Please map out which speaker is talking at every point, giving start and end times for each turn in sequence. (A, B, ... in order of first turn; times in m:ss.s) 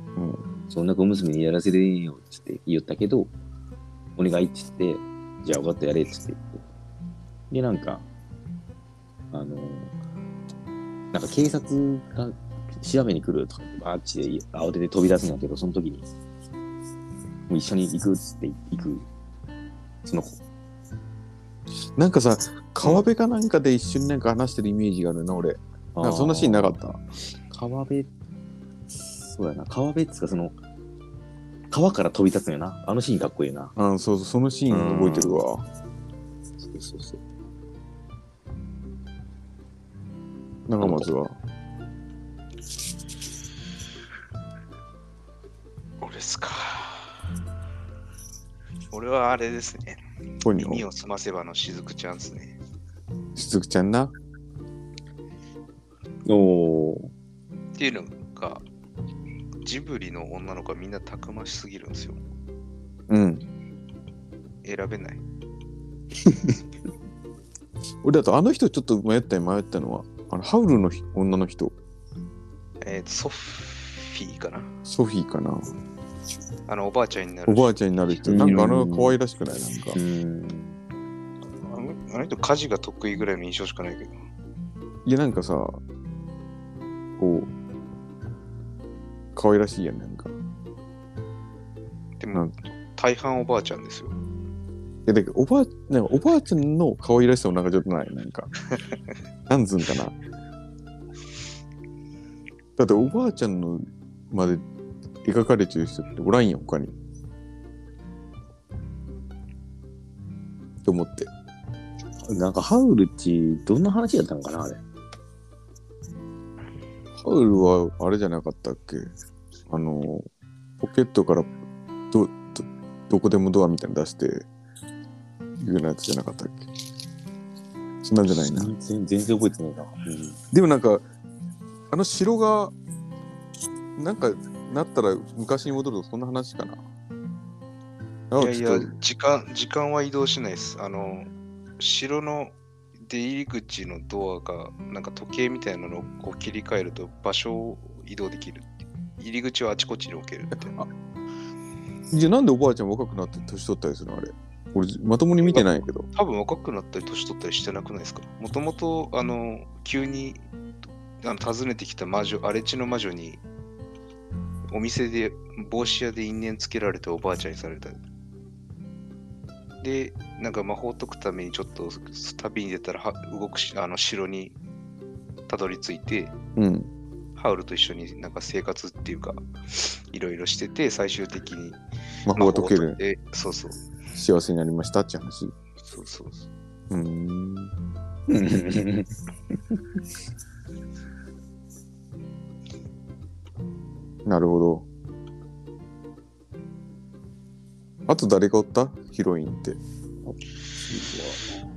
0:00.2-0:00.4 A
0:00.7-0:03.3 B
0:04.2-0:06.6 B
0:07.5-0:08.0 B
0:09.3-0:09.9 B
0:11.1-0:16.1 B
0:17.5-0:19.1 B
0:20.0-0:20.4 B
0:21.9-0:27.0 A
0:22.8-0:23.1 B
0:26.0-0:26.8 B
0:27.5-0:28.1 B
0:29.1-0:30.6 B
0:31.7-0:33.7 B
0:33.8-0:35.6 A
0:34.7-0:35.4 B
0:36.6-0:37.2 B
0:40.7-0:41.4 A
0:40.8-0:41.1 B
0:46.0-0:47.1 C
0:48.9-0:52.6 C
0:50.4-0:50.8 A
0:53.4-0:54.1 A
0:56.2-0:57.1 B
0:57.8-0:58.6 C
0:59.6-1:02.2 C
1:03.1-1:03.4 A
1:04.6-1:05.2 C
1:08.0-1:11.7 A
1:12.8-1:14.7 C
1:14.8-1:15.7 A
1:16.7-1:18.5 C
1:17.4-1:20.0 A
1:18.3-1:19.2 B
1:19.9-1:20.8 B
1:21.6-1:24.1 C
1:25.0-1:25.8 A
1:27.2-1:27.5 A
1:29.3-1:30.3 A
1:32.2-1:34.2 C
1:35.0-1:38.5 A
1:39.5-1:40.2 A
1:42.8-1:44.6 A
1:45.2-1:46.9 A
1:50.8-1:51.3 A
1:52.2-1:54.8 B
1:57.2-1:59.1 A
1:59.7-2:00.3 A
2:00.8-2:01.5 A
2:02.1-2:04.5 A
2:05.6-2:06.7 A
2:08.0-2:08.7 A
2:08.5-2:10.4 B
2:10.5-2:11.0 A
2:11.9-2:12.7 A
2:14.0-2:16.8 A
2:18.3-2:18.9 A
2:18.4-2:30.7 C
2:30.5-2:30.9 A
2:32.1-2:36.1 A
2:35.4-2:40.5 C
2:41.2-2:43.4 C
2:44.7-2:48.0 C
2:49.8-2:54.6 C
2:55.5-2:56.3 C
2:56.6-2:56.9 A
2:57.4-3:01.8 C
3:02.3-3:03.0 A
3:02.3-3:03.8 C
3:04.1-3:05.5 A
3:05.8-3:06.5 C
3:06.9-3:07.7 A
3:08.3-3:09.8 B
3:14.2-3:14.9 A
3:18.1-3:19.8 A
3:20.2-3:21.6 B